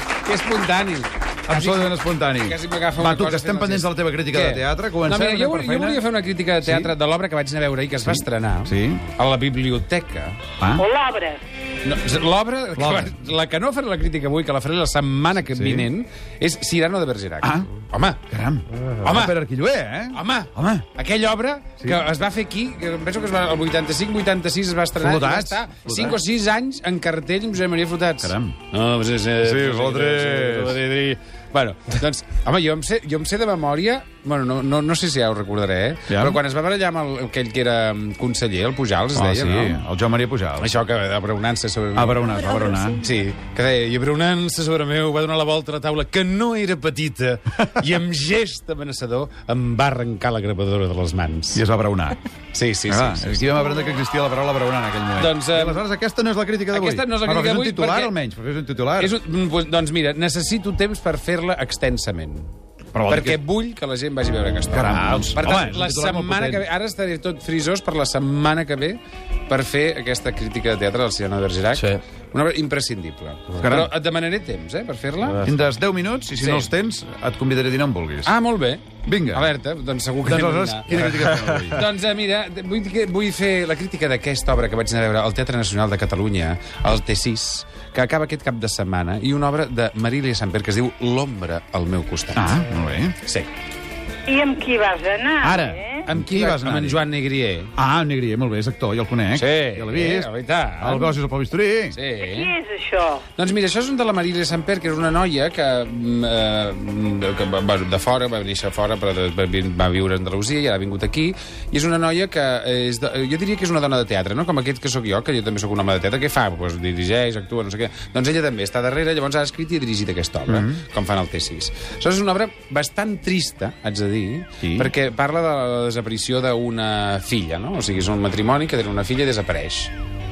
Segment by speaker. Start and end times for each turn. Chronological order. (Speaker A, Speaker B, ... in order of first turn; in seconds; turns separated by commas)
Speaker A: 0.2-10.4, Speaker B: 1.5-6.0, Speaker B: 6.6-6.9, Speaker B: 8.1-9.0, Speaker B: 10.6-10.9, Speaker C: 10.8-11.4, Speaker A: 11.8-18.3, Speaker B: 12.8-13.2, Speaker B: 15.4-15.9, Speaker B: 17.4-17.7, Speaker B: 18.3-20.9, Speaker A: 19.0-19.4, Speaker A: 20.1-39.8, Speaker B: 25.0-26.2, Speaker B: 28.2-28.6, Speaker B: 29.4-30.8, Speaker B: 36.1-36.4, Speaker B: 39.1-40.7, Speaker A: 40.6-51.6, Speaker B: 42.0-43.0, Speaker C: 42.5-42.8, Speaker B: 51.5-52.2, Speaker A: 52.5-53.5, Speaker B: 52.9-59.2, Speaker A: 55.1-55.9, Speaker A: 56.7-58.1, Speaker A: 59.0-62.5, Speaker B: 62.9-63.4, Speaker A: 63.1-75.5, Speaker B: 64.7-66.7, Speaker B: 73.6-73.9, Speaker B: 75.4-78.3, Speaker A: 76.4-76.7, Speaker A: 78.2-92.5, Speaker B: 79.0-79.5, Speaker B: 80.2-81.8, Speaker B: 92.3-93.2, Speaker A: 93.2-93.5, Speaker C: 94.3-96.0, Speaker B: 95.4-97.0, Speaker A: 96.0-97.7, Speaker B: 97.8-102.0, Speaker A: 99.3-101.2, Speaker A: 101.9-102.6, Speaker C: 102.2-103.3, Speaker A: 103.4-129.9, Speaker B: 120.5-120.8, Speaker B: 124.6-124.9